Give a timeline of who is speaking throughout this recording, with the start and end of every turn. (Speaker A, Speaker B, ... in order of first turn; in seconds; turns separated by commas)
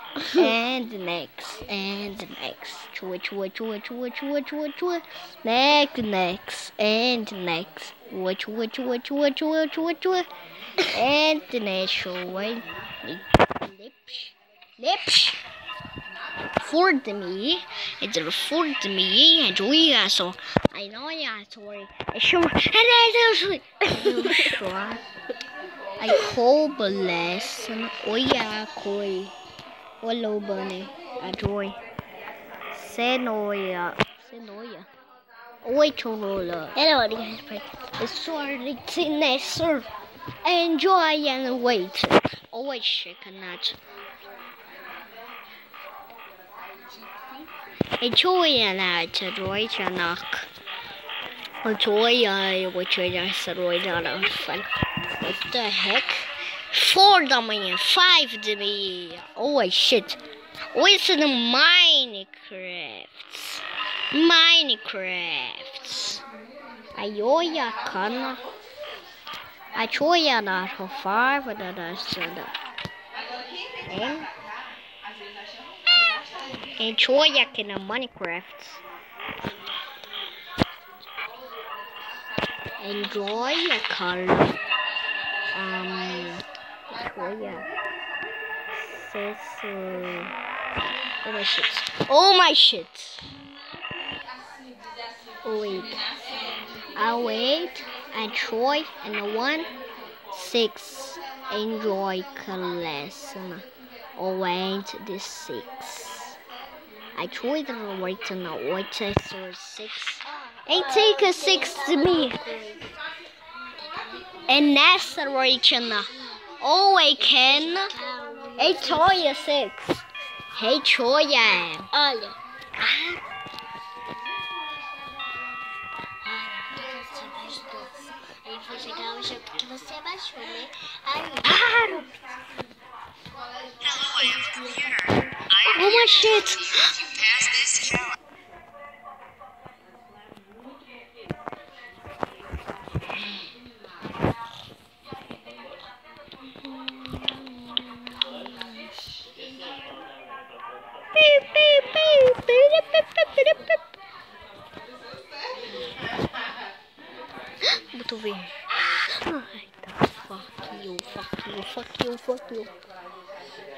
Speaker A: 0.3-10.3, Speaker A: 10.9-15.4, Speaker A: 16.6-25.0, Speaker A: 26.0-29.3, Speaker A: 30.0-31.8, Speaker A: 32.7-34.9, Speaker A: 35.6-36.9, Speaker B: 36.8-37.6, Speaker A: 38.0-39.9, Speaker A: 40.4-43.8, Speaker A: 48.0-50.5, Speaker A: 51.6-60.2, Speaker A: 60.7-66.2, Speaker A: 67.0-68.4, Speaker A: 69.8-72.5, Speaker A: 73.9-74.3, Speaker A: 76.8-78.8, Speaker A: 82.8-84.6, Speaker A: 85.5-87.7, Speaker A: 88.7-90.3, Speaker A: 91.2-93.3, Speaker A: 95.4-96.0, Speaker A: 96.9-99.7, Speaker A: 100.3-103.7, Speaker A: 104.2-106.3, Speaker A: 107.2-112.4, Speaker B: 110.7-112.8, Speaker B: 113.9-114.2, Speaker A: 114.5-116.1, Speaker A: 116.6-117.9, Speaker B: 117.3-119.2, Speaker A: 118.6-120.0, Speaker A: 120.5-121.9, Speaker B: 121.9-123.2, Speaker B: 126.2-131.8, Speaker A: 131.4-132.1, Speaker B: 134.0-134.9, Speaker A: 135.7-137.0, Speaker A: 146.5-148.8, Speaker A: 151.1-153.8, Speaker A: 157.7-158.5, Speaker A: 159.1-162.7